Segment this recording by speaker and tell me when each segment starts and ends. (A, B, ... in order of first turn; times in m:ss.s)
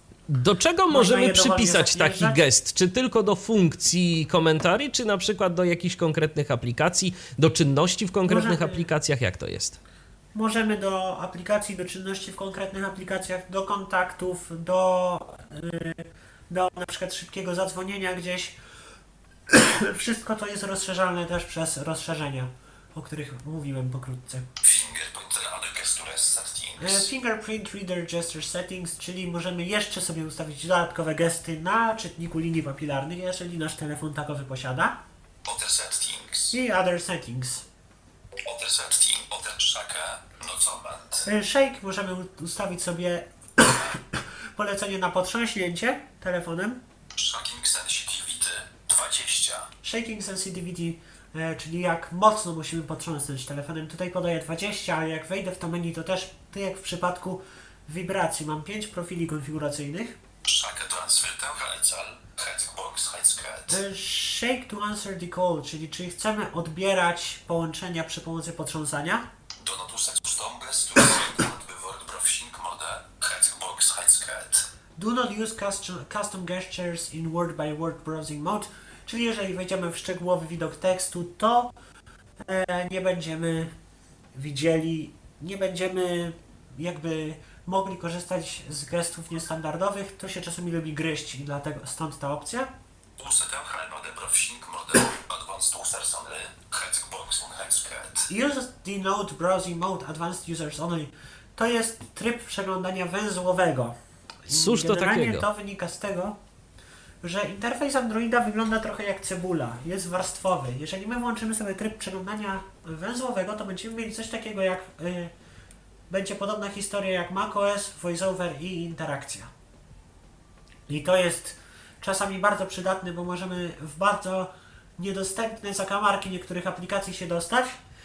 0:00.3-0:09.8 A
0:00.9-0:02.4 B
0:08.3-0:08.9 B
0:10.3-0:18.6 B
0:19.5-0:24.5 B
0:24.6-0:27.1 C
0:26.8-0:35.0 B
0:35.4-0:36.6 C
0:36.5-0:37.6 B
0:38.4-0:41.3 C
0:41.2-0:46.8 B
0:47.2-0:49.7 C
0:49.8-1:00.2 B
1:00.4-1:03.8 C
1:03.7-1:09.3 B
1:09.6-1:14.7 C
1:15.0-1:21.7 B
1:22.4-1:23.7 B
1:24.3-1:32.7 B
1:33.2-1:38.3 C
1:38.3-1:46.4 B
1:44.5-1:45.5 A
1:47.2-1:55.3 B
1:56.1-1:59.5 B
2:00.9-2:07.8 B